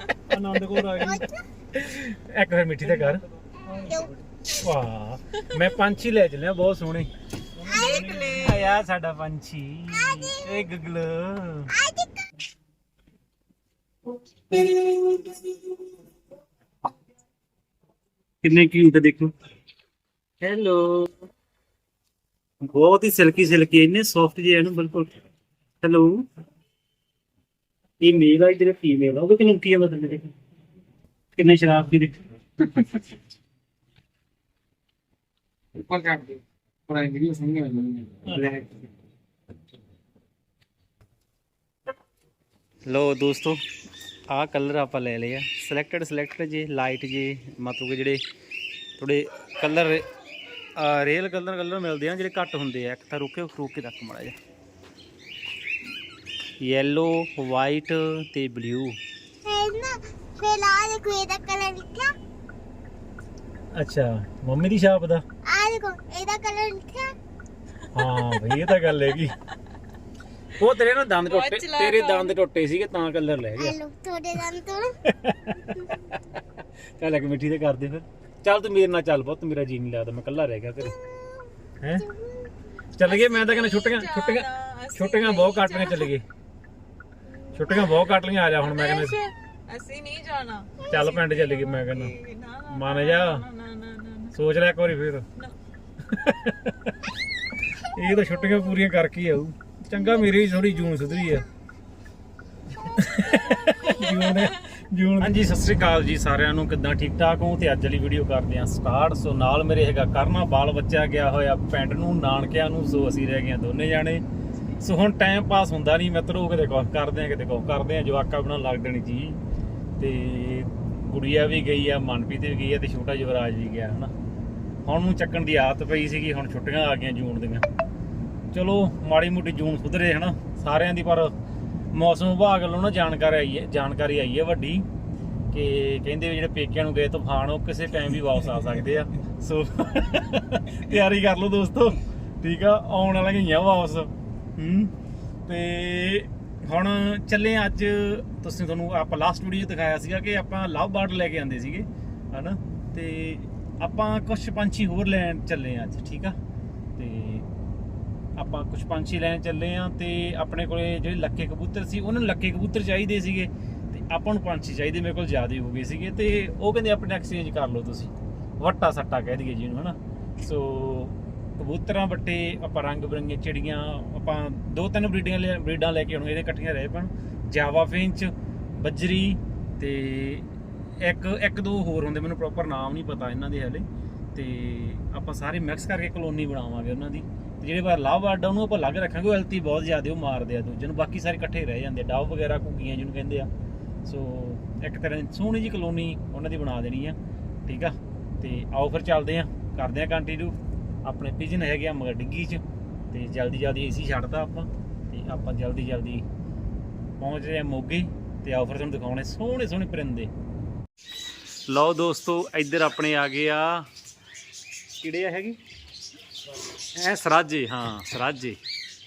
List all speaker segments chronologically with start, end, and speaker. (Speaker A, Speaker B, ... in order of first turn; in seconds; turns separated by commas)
Speaker A: 0.3-3.2, Speaker B: 0.9-1.4, Speaker B: 3.7-4.1, Speaker A: 4.5-7.1, Speaker C: 7.6-8.8, Speaker A: 7.7-11.7, Speaker B: 9.9-10.6, Speaker B: 11.7-12.3, Speaker A: 14.5-15.5, Speaker A: 18.4-19.3, Speaker A: 20.4-21.1, Speaker A: 22.6-25.1, Speaker A: 25.8-26.2, Speaker A: 28.0-30.3, Speaker A: 31.4-33.0, Speaker D: 35.8-38.2, Speaker A: 38.2-38.9, Speaker A: 42.9-43.6, Speaker A: 44.3-48.2, Speaker A: 49.0-50.0, Speaker A: 50.8-54.3, Speaker A: 56.6-59.0, Speaker B: 59.5-62.1, Speaker A: 63.7-65.2, Speaker B: 65.5-67.1, Speaker A: 67.9-69.3, Speaker A: 70.6-73.8, Speaker C: 71.2-72.3, Speaker B: 73.6-74.9, Speaker A: 75.1-76.2, Speaker A: 77.0-81.0, Speaker A: 81.8-82.1, Speaker B: 82.0-82.5, Speaker A: 83.0-86.2, Speaker C: 83.1-86.1, Speaker A: 87.5-89.2, Speaker C: 88.6-94.3, Speaker A: 90.8-92.1, Speaker A: 92.7-93.5, Speaker A: 94.3-95.2, Speaker A: 96.1-97.0, Speaker A: 97.9-101.5, Speaker A: 102.8-114.2, Speaker A: 114.8-119.4, Speaker A: 120.0-124.1, Speaker A: 124.9-127.6, Speaker A: 128.5-131.3, Speaker A: 131.9-134.8, Speaker A: 135.5-144.9, Speaker A: 145.4-156.3, Speaker A: 156.9-157.4, Speaker A: 158.3-180.5, Speaker A: 181.0-193.5, Speaker A: 194.0-206.2, Speaker A: 207.2-210.3, Speaker A: 211.7-213.9, Speaker A: 215.0-215.6, Speaker A: 216.9-218.6